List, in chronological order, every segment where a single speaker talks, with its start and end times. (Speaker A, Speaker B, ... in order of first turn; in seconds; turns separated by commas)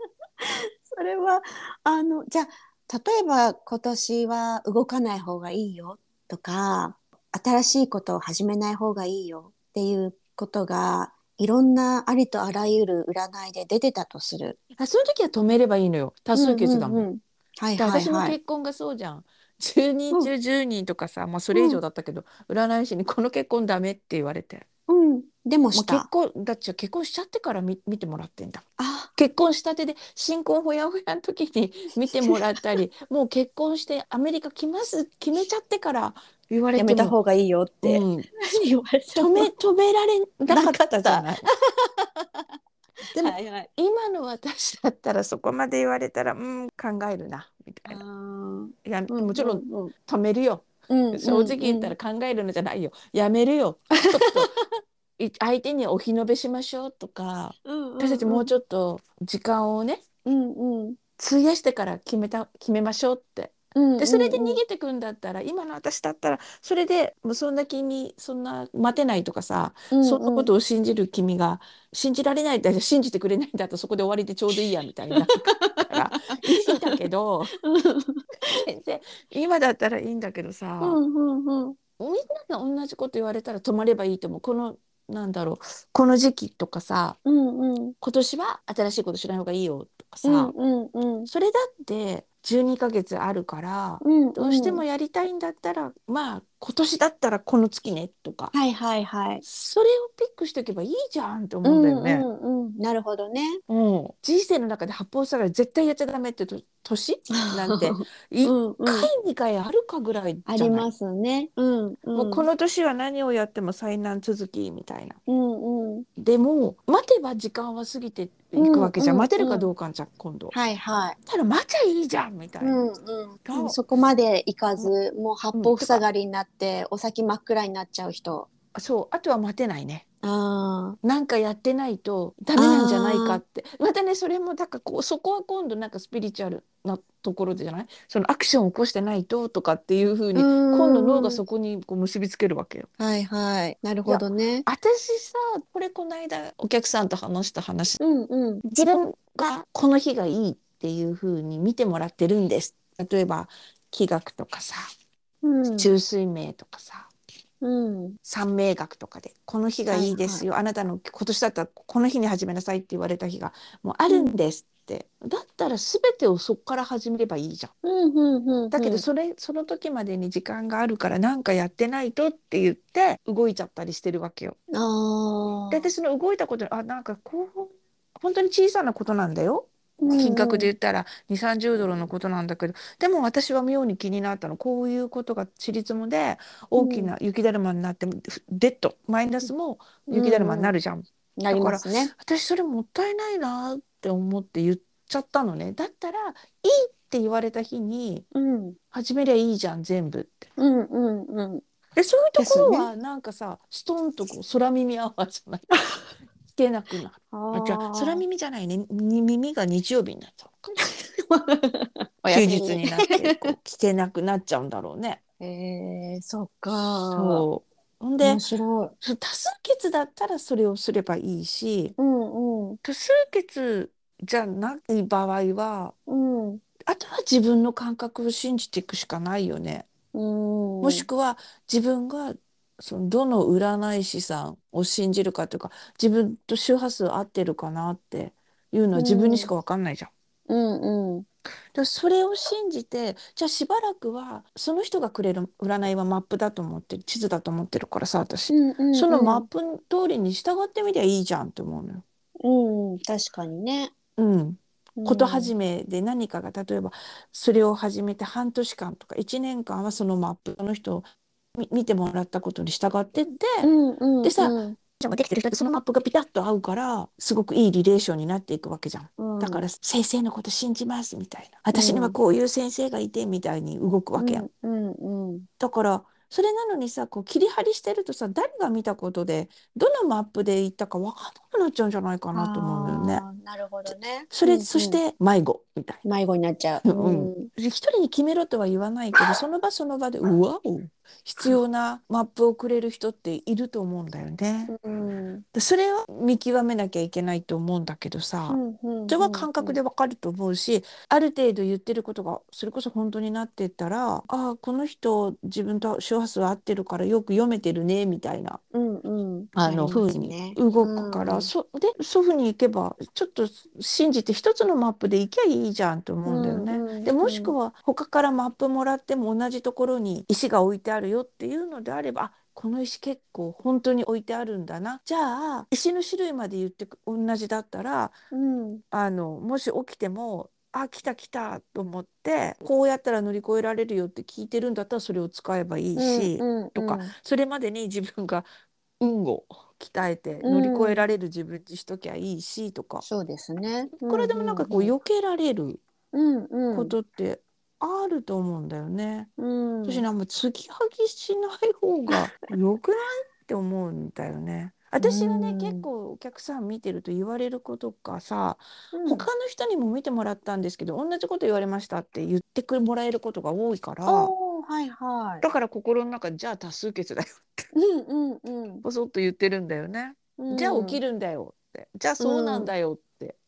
Speaker A: 0.4-14.6, Speaker B: 14.8-17.1, Speaker A: 16.3-18.4, Speaker B: 17.8-24.7, Speaker A: 21.5-21.8, Speaker A: 24.9-26.1, Speaker B: 25.7-28.6, Speaker A: 28.8-29.1, Speaker B: 29.2-37.1, Speaker A: 36.8-39.5, Speaker B: 37.8-38.3, Speaker B: 39.1-41.5, Speaker A: 40.5-42.5, Speaker B: 43.1-48.0, Speaker A: 43.2-43.7, Speaker A: 47.9-49.9, Speaker B: 48.8-54.5, Speaker A: 50.9-51.9, Speaker A: 54.1-54.4, Speaker B: 55.2-60.0, Speaker A: 57.6-58.5, Speaker A: 60.2-61.0, Speaker B: 61.2-77.5, Speaker A: 63.7-64.6, Speaker A: 69.9-70.5, Speaker A: 75.1-76.1, Speaker A: 76.6-77.0, Speaker A: 77.7-78.2, Speaker B: 78.5-81.0, Speaker A: 80.8-81.8, Speaker B: 82.0-87.2, Speaker A: 87.2-87.9, Speaker B: 88.0-90.5, Speaker A: 90.2-91.3, Speaker B: 91.3-98.5, Speaker A: 94.0-94.8, Speaker A: 98.5-99.4, Speaker B: 99.4-102.2, Speaker A: 101.6-103.6, Speaker B: 103.7-110.9, Speaker A: 107.3-109.1, Speaker A: 110.5-112.5, Speaker B: 112.2-115.2, Speaker A: 115.3-116.1, Speaker B: 116.2-120.5, Speaker A: 118.6-119.7, Speaker A: 120.5-121.2, Speaker B: 121.2-122.8, Speaker A: 122.6-128.5, Speaker B: 123.4-123.8, Speaker B: 125.5-126.0, Speaker B: 128.7-130.1, Speaker A: 130.2-131.0, Speaker B: 131.0-142.9, Speaker A: 132.6-133.4, Speaker A: 140.3-141.4, Speaker A: 143.0-144.7, Speaker B: 144.1-148.0, Speaker A: 148.0-148.6, Speaker B: 148.7-154.8, Speaker A: 155.4-155.9, Speaker B: 155.8-157.1, Speaker A: 157.6-158.2, Speaker B: 158.2-167.7, Speaker A: 159.9-160.4, Speaker A: 164.1-164.3, Speaker A: 167.8-169.0, Speaker B: 168.7-174.6, Speaker A: 174.7-175.9, Speaker B: 175.7-198.2, Speaker A: 180.0-180.7, Speaker A: 186.8-187.1, Speaker A: 190.1-190.7, Speaker A: 191.4-192.1, Speaker A: 198.3-198.8, Speaker B: 198.9-200.5, Speaker A: 200.6-201.6, Speaker B: 201.9-205.7, Speaker A: 202.3-202.9, Speaker B: 206.5-210.7, Speaker A: 207.3-208.2, Speaker A: 211.3-213.5, Speaker B: 212.3-215.2, Speaker A: 215.4-217.4, Speaker B: 216.7-218.4, Speaker A: 218.2-218.9, Speaker B: 219.0-221.9, Speaker A: 222.0-222.8, Speaker B: 222.8-225.9, Speaker A: 226.1-226.6, Speaker B: 226.9-229.9, Speaker A: 230.1-231.1, Speaker B: 230.8-240.1, Speaker A: 238.9-239.5, Speaker A: 240.5-241.2, Speaker B: 241.7-252.0, Speaker A: 248.5-249.4, Speaker A: 252.4-253.9, Speaker B: 254.2-263.7, Speaker A: 255.0-255.5, Speaker A: 263.6-264.8, Speaker B: 264.2-274.5, Speaker A: 269.2-269.6, Speaker A: 271.7-272.2, Speaker A: 274.2-275.5, Speaker B: 275.6-283.2, Speaker A: 282.3-285.0, Speaker B: 284.3-286.0, Speaker A: 286.1-287.5, Speaker B: 286.8-294.7, Speaker A: 294.7-295.4, Speaker B: 295.5-308.6, Speaker A: 298.5-299.8, Speaker A: 308.7-311.5, Speaker B: 309.6-328.1, Speaker A: 316.2-317.5, Speaker A: 328.3-328.8, Speaker B: 328.9-338.5, Speaker A: 335.9-337.1, Speaker B: 339.0-343.1, Speaker A: 340.4-341.1, Speaker A: 343.0-344.9, Speaker B: 344.0-345.8, Speaker A: 346.1-346.9, Speaker B: 346.7-349.3, Speaker A: 349.4-350.1, Speaker B: 349.8-364.3, Speaker A: 355.0-355.9, Speaker A: 358.9-359.3, Speaker A: 364.1-365.4, Speaker B: 365.4-367.6, Speaker A: 367.7-368.8, Speaker B: 368.8-373.4, Speaker A: 370.4-371.0, Speaker A: 372.2-372.7